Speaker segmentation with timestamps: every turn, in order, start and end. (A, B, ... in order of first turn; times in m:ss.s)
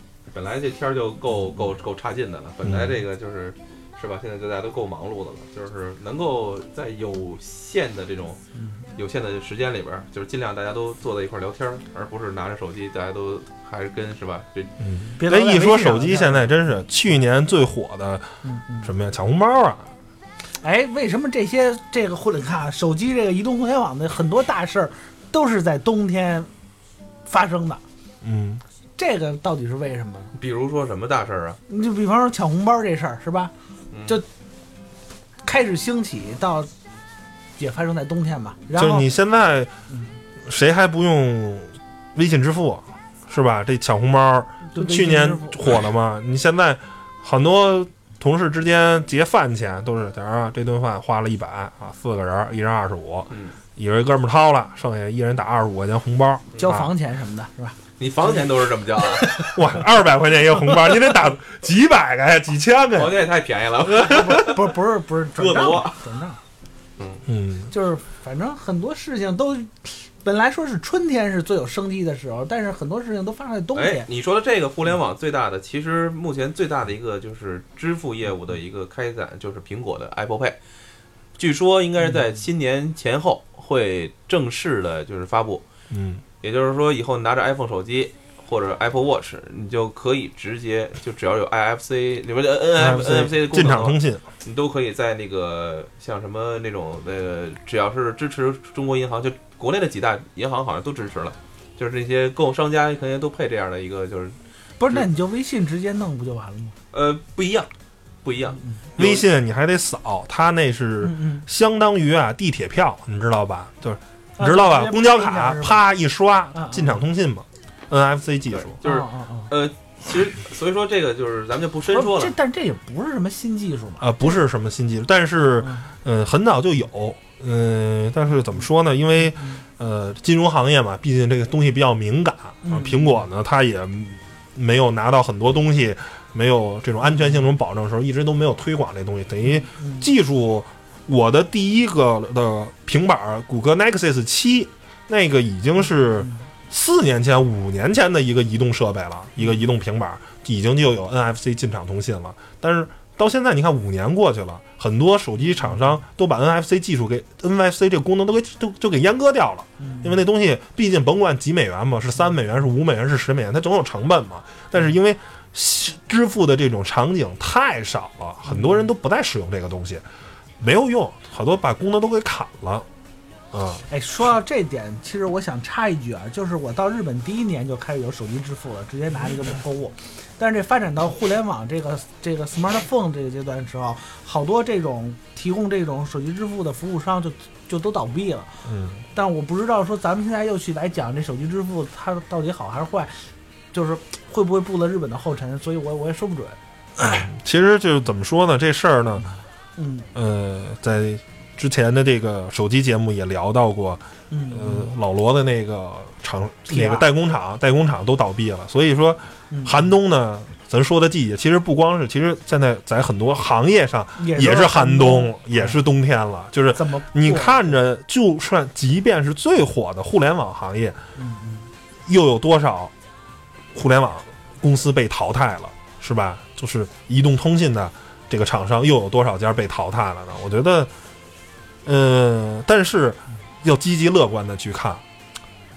0:00.3-0:08.4 A
0:02.6-0:03.0 B
0:09.0-0:14.7 A
0:14.8-0:18.3 B
0:15.2-0:16.4 C
0:18.4-0:18.9 C
0:18.8-0:19.9 B
0:20.6-0:26.5 C
0:27.2-0:27.8 C
0:28.2-0:28.6 B
0:29.0-0:30.3 C
0:30.4-0:31.6 A
0:31.7-0:33.5 C
0:33.9-0:34.2 A
0:35.4-0:36.7 C
0:37.6-0:39.0 C
0:38.8-0:39.7 B
0:40.4-0:56.9 B
0:44.7-0:45.6 C
0:56.6-0:57.8 C
0:58.0-0:59.5 A
0:59.4-1:03.2 B
1:02.9-1:04.8 A
1:03.8-1:06.4 C
1:05.4-1:06.0 A
1:07.0-1:07.2 A
1:07.3-1:07.7 B
1:07.7-1:14.0 C
1:13.7-1:20.6 A
1:21.4-1:25.6 A
1:25.9-1:26.2 B
1:26.4-1:44.4 A
1:32.8-1:34.2 B
1:44.8-1:46.7 C
1:46.9-1:47.7 A
1:48.2-1:49.2 A
1:49.0-1:58.8 B
1:51.0-1:51.4 C
1:54.4-1:55.8 C
1:56.5-1:57.0 C
1:58.6-2:02.3 A
1:58.8-1:59.5 C
2:01.9-2:04.2 C
2:04.0-2:50.0 B
2:12.6-2:13.2 C
2:19.6-2:20.0 C
2:39.8-2:40.1 C
2:48.5-2:48.8 C
2:50.6-2:52.9 B
2:53.5-2:53.8 B
2:53.9-3:17.2 C
3:08.6-3:09.0 B
3:17.0-3:19.3 B
3:19.8-3:20.1 C
3:20.1-3:41.0 B
3:24.3-3:24.9 C
3:26.7-3:27.0 C
3:29.5-3:29.8 C
3:34.2-3:35.7 C
3:36.7-3:37.7 C
3:41.2-3:41.7 C
3:42.1-3:42.9 B
3:43.7-3:50.9 B
3:51.8-3:55.0 B